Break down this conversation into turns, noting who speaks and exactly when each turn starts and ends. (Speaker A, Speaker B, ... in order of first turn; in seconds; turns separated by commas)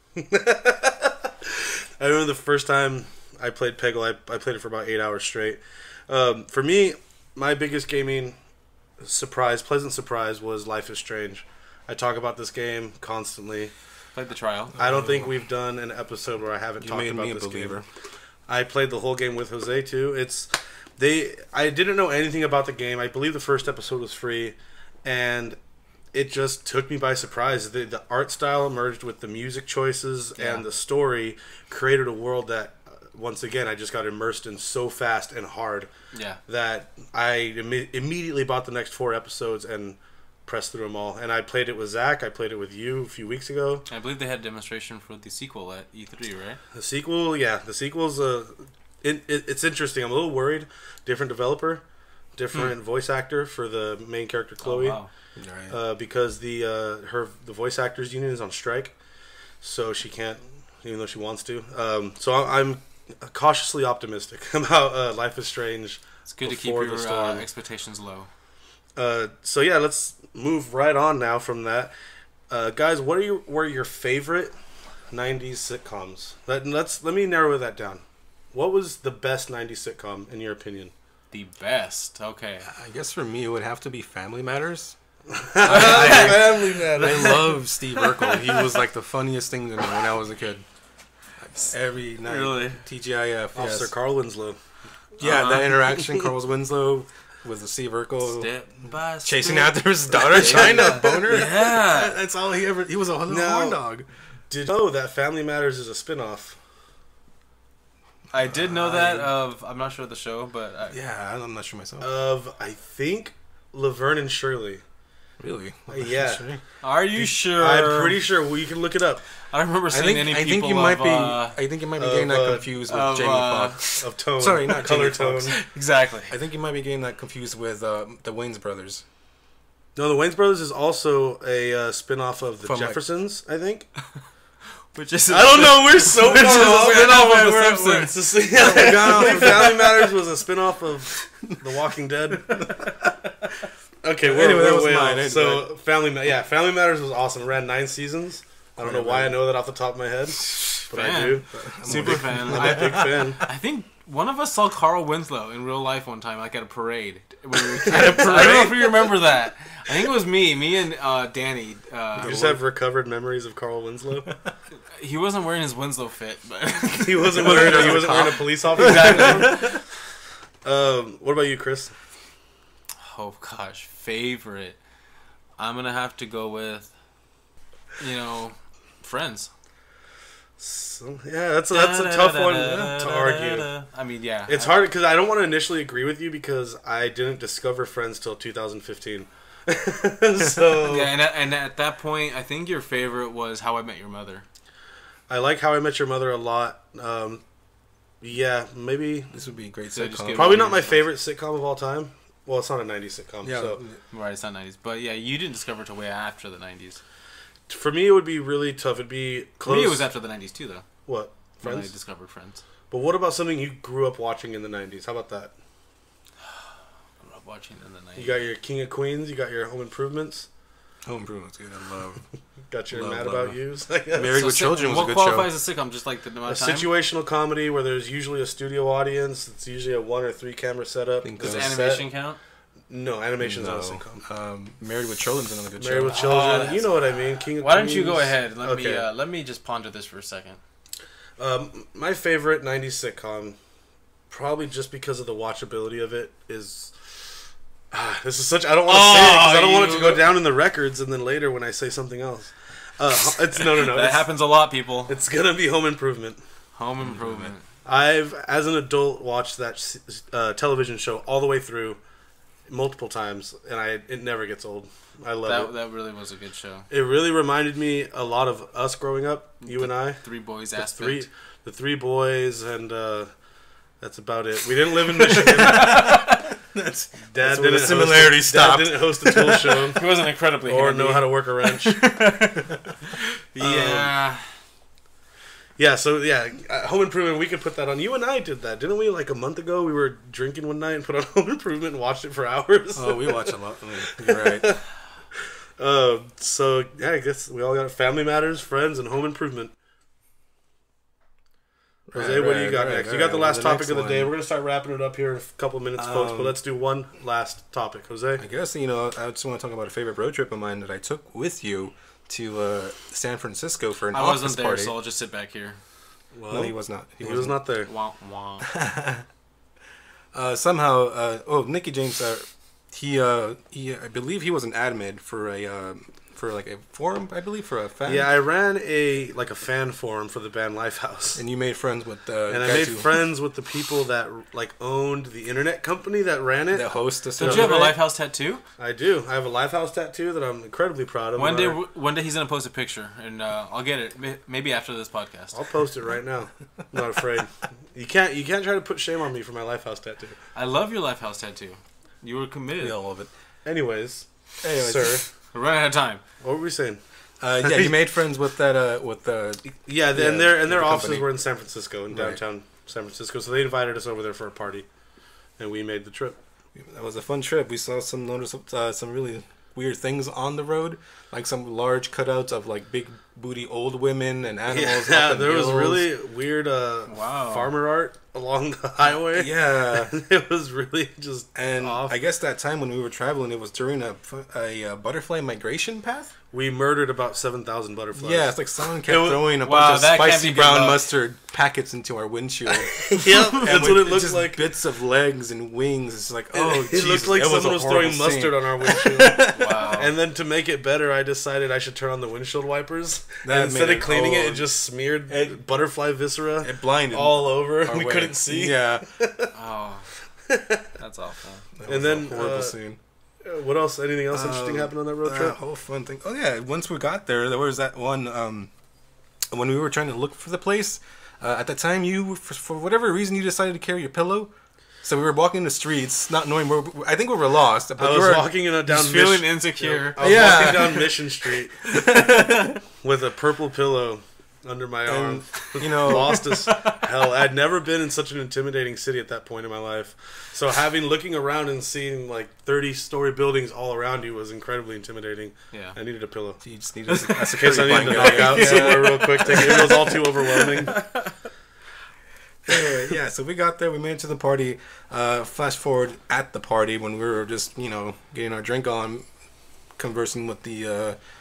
Speaker A: 0.1-8.3, Speaker A: 9.0-13.7, Speaker B: 14.1-14.8, Speaker A: 14.8-17.8, Speaker C: 14.8-15.3, Speaker C: 16.8-17.9, Speaker A: 18.5-25.6, Speaker A: 26.1-35.9, Speaker B: 30.4-30.6, Speaker B: 36.1-36.4, Speaker A: 36.5-43.9, Speaker B: 43.9-46.6, Speaker A: 46.7-51.8, Speaker A: 52.4-55.0, Speaker B: 54.6-55.1, Speaker C: 55.4-55.8, Speaker A: 55.7-58.9, Speaker A: 59.6-67.4, Speaker B: 66.3-68.3, Speaker A: 69.0-71.9, Speaker A: 72.5-74.5, Speaker A: 75.1-80.9, Speaker B: 81.3-82.7, Speaker C: 82.7-85.0, Speaker A: 85.3-87.5, Speaker C: 85.6-90.6, Speaker B: 85.6-87.4, Speaker B: 88.0-88.6, Speaker C: 91.4-93.9, Speaker B: 92.2-92.8, Speaker A: 93.5-94.6, Speaker C: 95.2-98.5, Speaker B: 95.2-95.6, Speaker A: 95.7-96.3, Speaker B: 98.3-102.2, Speaker C: 99.2-101.8, Speaker A: 100.2-102.7, Speaker C: 102.4-104.1, Speaker A: 103.2-103.8, Speaker A: 104.5-106.6, Speaker B: 108.3-111.0, Speaker C: 108.4-109.3, Speaker C: 110.9-112.1, Speaker A: 112.0-114.8, Speaker C: 115.4-116.6, Speaker A: 115.9-116.4, Speaker B: 116.8-118.2, Speaker A: 117.3-119.2, Speaker B: 119.5-121.6, Speaker C: 119.9-125.6, Speaker A: 122.0-122.7, Speaker B: 122.9-124.1, Speaker A: 123.9-125.6, Speaker B: 125.5-126.3, Speaker C: 126.3-129.0, Speaker A: 129.9-133.9, Speaker C: 132.6-133.0, Speaker B: 134.9-139.4, Speaker A: 135.3-142.8, Speaker C: 138.6-140.1, Speaker C: 141.2-141.5, Speaker C: 142.5-142.9, Speaker A: 144.0-153.4, Speaker C: 144.2-145.7, Speaker C: 148.8-149.4, Speaker B: 150.7-162.6, Speaker C: 151.5-153.3, Speaker A: 157.9-158.8, Speaker C: 157.9-158.7, Speaker A: 162.2-164.3, Speaker B: 164.9-169.8, Speaker A: 167.0-169.8, Speaker C: 167.4-169.7, Speaker A: 170.6-171.9, Speaker B: 173.0-174.8, Speaker B: 175.6-176.9, Speaker B: 178.0-179.5, Speaker A: 180.6-183.7, Speaker B: 181.7-184.8, Speaker A: 184.5-191.1, Speaker B: 190.8-194.4, Speaker A: 195.3-197.4, Speaker A: 198.2-199.3, Speaker C: 199.3-200.7, Speaker B: 199.9-201.0, Speaker A: 200.3-203.8, Speaker C: 203.4-204.0, Speaker B: 204.1-207.0, Speaker A: 207.7-210.1, Speaker B: 209.6-210.8, Speaker A: 211.1-211.9, Speaker B: 211.6-212.6, Speaker A: 212.9-215.5, Speaker B: 217.2-218.4, Speaker A: 218.2-220.5, Speaker C: 221.0-222.2, Speaker A: 222.7-224.4, Speaker C: 222.9-223.6, Speaker C: 224.1-225.5, Speaker B: 224.2-226.9, Speaker A: 226.4-232.1, Speaker C: 231.2-231.7, Speaker B: 231.4-232.4, Speaker A: 232.9-234.2, Speaker C: 233.4-236.4, Speaker A: 235.8-239.0, Speaker B: 236.1-236.9, Speaker B: 237.6-240.6, Speaker A: 241.4-243.6, Speaker A: 244.3-247.4, Speaker A: 247.9-254.3, Speaker B: 248.9-250.2, Speaker B: 253.5-255.2, Speaker A: 255.1-256.4, Speaker B: 256.7-257.6, Speaker C: 257.0-257.5, Speaker A: 257.8-262.0, Speaker A: 262.7-265.7, Speaker B: 265.4-266.9, Speaker A: 266.9-273.3, Speaker B: 269.6-271.3, Speaker A: 274.0-276.2, Speaker B: 275.5-276.5, Speaker C: 275.6-276.2, Speaker C: 276.7-279.9, Speaker A: 277.3-280.1, Speaker B: 279.9-284.6, Speaker A: 280.6-282.1, Speaker A: 283.6-284.1, Speaker A: 285.8-293.5, Speaker C: 292.9-294.8, Speaker A: 294.1-294.9, Speaker A: 295.8-299.7, Speaker C: 302.1-304.3, Speaker A: 302.1-308.4, Speaker C: 306.0-306.6, Speaker C: 308.4-314.9, Speaker B: 314.1-315.8, Speaker A: 316.3-317.9, Speaker C: 316.5-317.6, Speaker B: 317.9-318.6, Speaker C: 318.7-319.2, Speaker C: 320.3-328.3, Speaker A: 328.1-331.4, Speaker C: 331.4-333.2, Speaker A: 332.5-337.9, Speaker C: 336.7-337.9, Speaker B: 337.4-338.6, Speaker A: 338.8-341.8, Speaker B: 341.4-345.6, Speaker A: 345.5-350.4, Speaker B: 350.5-352.9, Speaker C: 352.8-353.3, Speaker A: 353.6-355.2, Speaker C: 354.6-355.2, Speaker B: 355.5-356.2, Speaker A: 356.4-357.0, Speaker C: 357.4-361.3, Speaker A: 357.6-357.9, Speaker A: 359.8-364.9, Speaker C: 362.1-362.4, Speaker A: 365.6-366.4, Speaker C: 366.7-376.1, Speaker A: 374.7-382.2, Speaker B: 377.1-377.7, Speaker C: 379.3-380.2, Speaker C: 381.5-386.3, Speaker A: 386.5-389.5, Speaker C: 388.1-399.4, Speaker B: 389.6-391.0, Speaker A: 393.0-394.6, Speaker A: 396.5-409.5, Speaker B: 399.5-400.1, Speaker C: 403.4-404.6, Speaker C: 405.3-405.6, Speaker C: 406.6-409.0, Speaker B: 409.5-410.1, Speaker A: 410.5-410.9, Speaker B: 411.0-411.6, Speaker C: 411.8-413.0, Speaker A: 411.9-412.8, Speaker A: 413.4-415.6, Speaker C: 414.3-418.7, Speaker C: 419.5-428.5, Speaker A: 428.0-446.6, Speaker B: 428.9-430.7, Speaker C: 430.2-432.8, Speaker C: 435.1-436.5, Speaker B: 436.1-437.0, Speaker B: 445.7-446.0, Speaker C: 446.6-449.7, Speaker B: 447.1-451.3, Speaker A: 447.5-451.0, Speaker C: 452.7-459.3, Speaker C: 459.9-461.2